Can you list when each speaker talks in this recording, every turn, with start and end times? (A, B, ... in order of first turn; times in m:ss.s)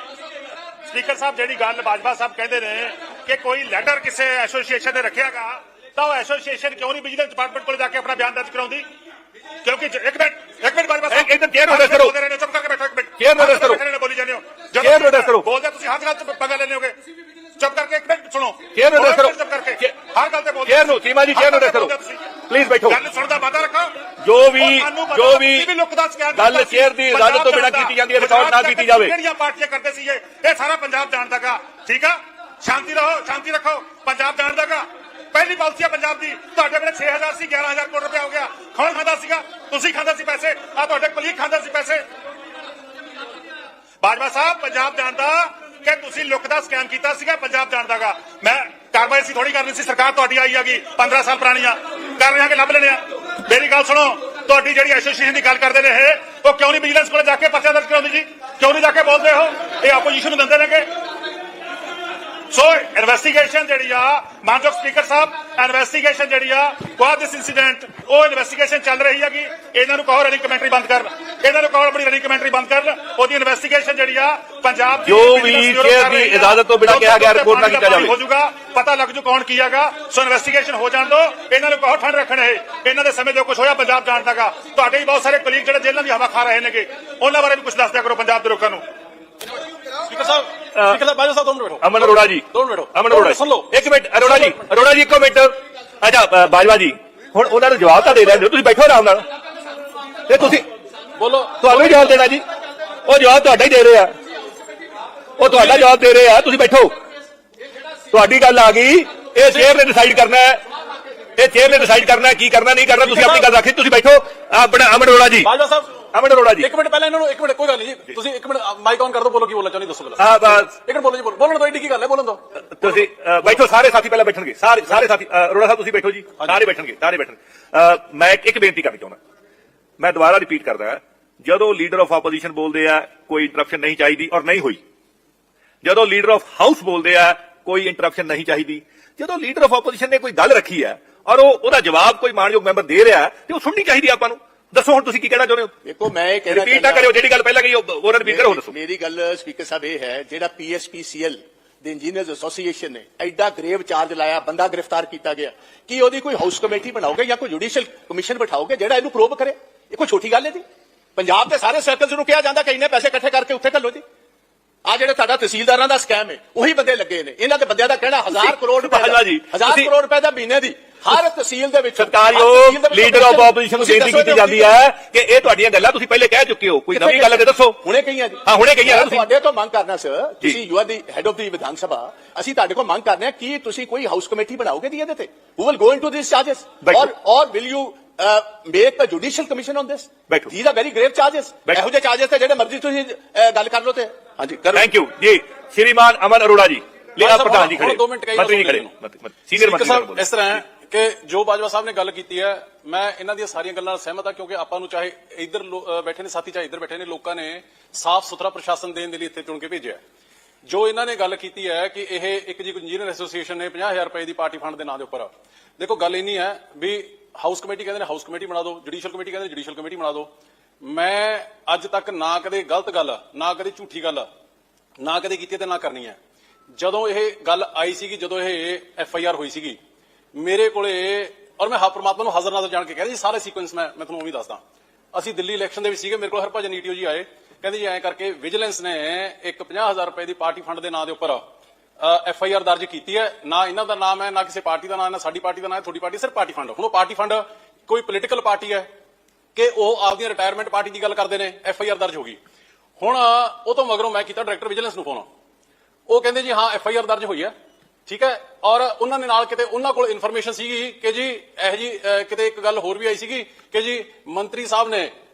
0:00.9-0:08.9 A
0:09.6-0:17.0 A
0:11.1-0:12.2 B
0:13.2-0:13.8 B
0:14.8-0:15.4 B
0:17.6-0:22.3 A
0:18.7-0:19.9 B
0:20.7-0:21.9 B
0:22.5-0:23.0 B
0:22.9-0:24.0 A
0:24.2-0:25.7 B
0:24.6-0:42.0 A
0:26.3-0:29.1 B
0:44.0-1:00.9 A
1:02.5-1:28.8 A
1:15.1-1:18.2 B
1:30.1-1:34.6 C
1:30.7-1:31.0 B
1:31.8-1:39.2 B
1:40.3-1:40.7 B
1:41.2-1:42.2 C
1:41.6-1:42.4 B
1:43.1-1:44.1 B
1:45.4-1:46.9 B
1:45.5-1:45.9 C
1:48.1-1:50.6 B
1:49.4-1:49.8 C
1:51.4-1:55.5 B
1:53.0-1:53.5 C
1:55.4-1:55.9 C
1:56.1-1:56.7 B
1:56.6-2:03.0 C
2:00.2-2:00.7 B
2:02.7-2:09.2 B
2:10.0-2:14.8 B
2:15.8-2:25.7 B
2:25.8-2:27.1 D
2:26.5-2:28.7 B
2:28.2-2:40.6 D
2:41.2-2:44.0 D
2:44.9-2:54.8 D
2:48.3-2:49.9 B
2:52.0-2:57.9 B
2:56.9-3:14.9 D
2:58.4-2:59.3 B
3:06.8-3:07.1 B
3:10.3-3:10.6 B
3:14.7-3:20.3 B
3:17.2-3:18.9 C
3:19.5-3:30.0 C
3:30.7-3:40.3 C
3:40.8-3:44.3 C
3:45.0-3:46.2 C
3:46.8-3:49.8 C
3:50.4-3:54.6 C
3:55.1-4:01.4 C
4:02.0-4:08.9 C
4:09.6-4:12.4 C
4:13.0-4:15.3 C
4:16.1-4:17.5 C
4:18.1-4:25.1 C